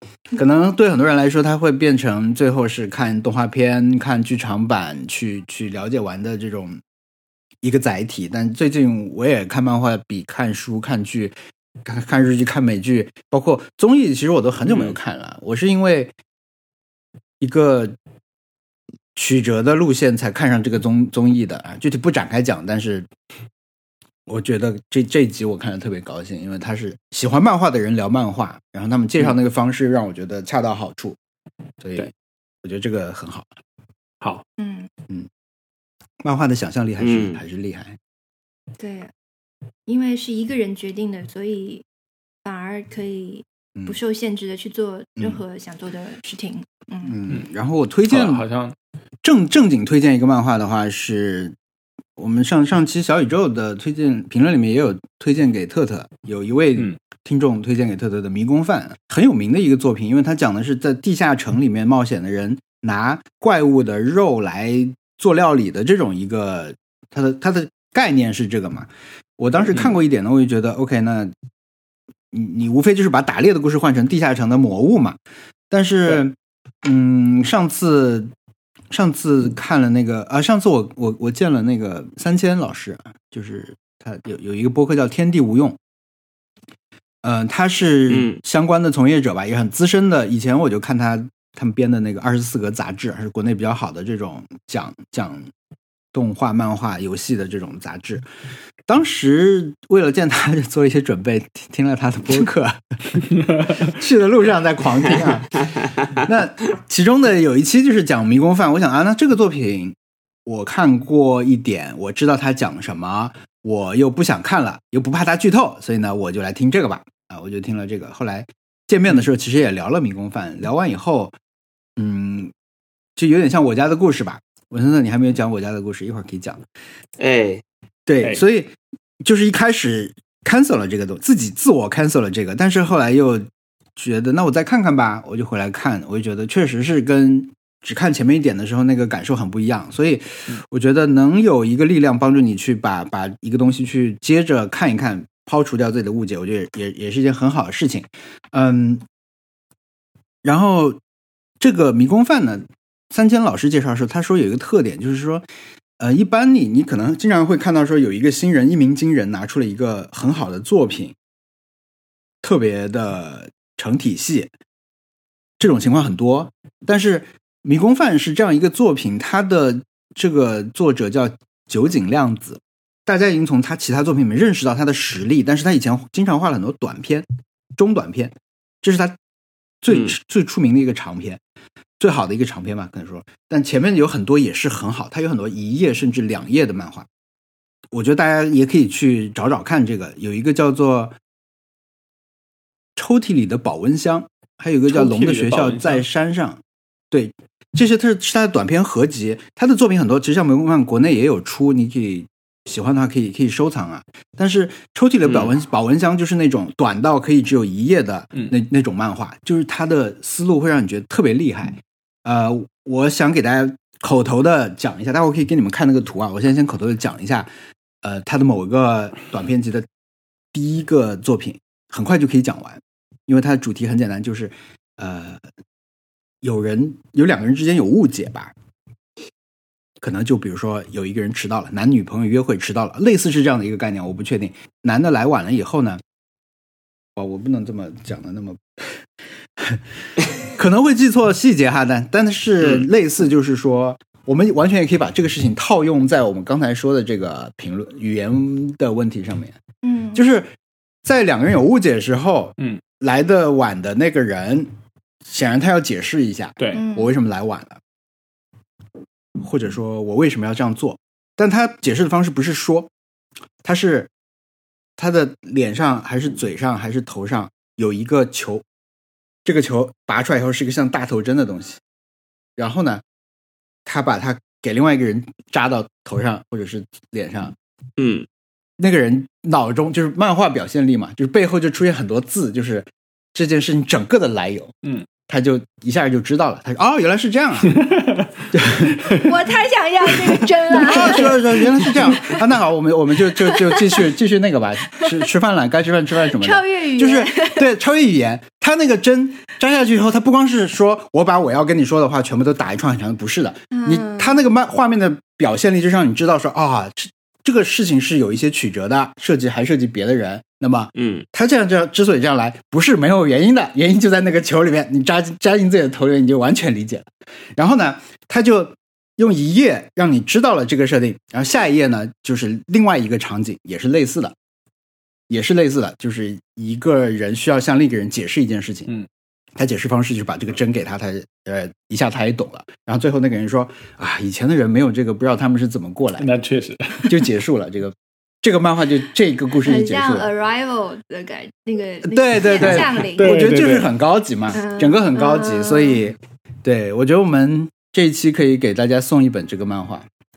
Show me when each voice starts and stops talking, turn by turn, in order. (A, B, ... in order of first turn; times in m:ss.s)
0:00.3-0:06.8 A
0:07.6-0:16.2 A
0:17.4-0:18.0 A
0:19.2-0:23.1 A
0:24.3-0:31.2 A
0:31.8-0:32.1 A
0:32.6-0:33.5 A
0:34.6-0:34.9 B
0:36.2-0:38.0 A
0:37.0-0:37.4 C
0:38.8-0:39.1 B
0:39.9-0:41.8 B
0:42.4-0:47.1 B
0:47.0-0:48.4 A
0:48.1-0:48.8 D
0:49.2-0:51.6 A
0:52.2-1:11.3 A
1:12.3-1:15.2 A
1:15.7-1:18.3 A
1:18.9-1:25.8 A
1:27.2-1:35.5 A
1:28.1-1:28.4 C
1:36.1-1:38.3 A
1:38.9-2:01.4 A
2:02.0-2:02.5 A
2:03.2-2:06.6 A
2:07.2-2:07.6 C
2:08.1-2:29.0 A
2:30.4-2:31.0 A
2:31.6-2:35.4 A
2:36.0-2:41.2 A
2:42.4-2:44.5 A
2:45.6-2:59.2 A
2:59.8-3:01.4 A
2:59.9-3:00.1 C
3:02.0-3:07.1 A
3:07.9-3:11.2 A
3:13.0-3:37.5 A
3:14.9-3:16.0 D
3:25.2-3:25.5 C
3:38.0-3:39.9 A
3:40.5-3:45.4 A
3:46.4-3:48.5 A
3:50.0-3:56.0 A
3:57.2-3:58.6 A
4:00.4-4:09.6 A
4:09.8-4:10.2 B
4:10.2-4:10.5 A
4:11.0-4:14.7 A
4:15.2-4:17.8 A
4:16.6-4:16.8 D
4:16.7-4:17.1 B
4:19.4-4:22.9 A
4:23.6-4:24.1 A
4:25.0-4:28.6 A
4:29.4-4:31.8 A
4:32.6-4:33.0 A
4:33.9-4:37.6 A
4:38.0-4:38.3 C
4:38.8-4:44.7 A
4:45.3-4:47.8 A
4:47.8-4:48.3 D
4:48.5-4:49.1 A
4:49.2-4:52.4 B
4:50.7-5:24.4 A
4:53.4-4:54.0 B
4:56.3-4:57.6 B
5:03.7-5:04.4 B
5:11.0-5:11.3 C
5:25.3-5:28.9 A
5:29.6-5:36.3 A
5:36.2-5:37.1 D
5:37.1-5:40.3 A
5:39.6-5:43.2 B
5:42.0-5:50.1 A
5:42.4-5:43.9 D
5:44.5-5:46.0 B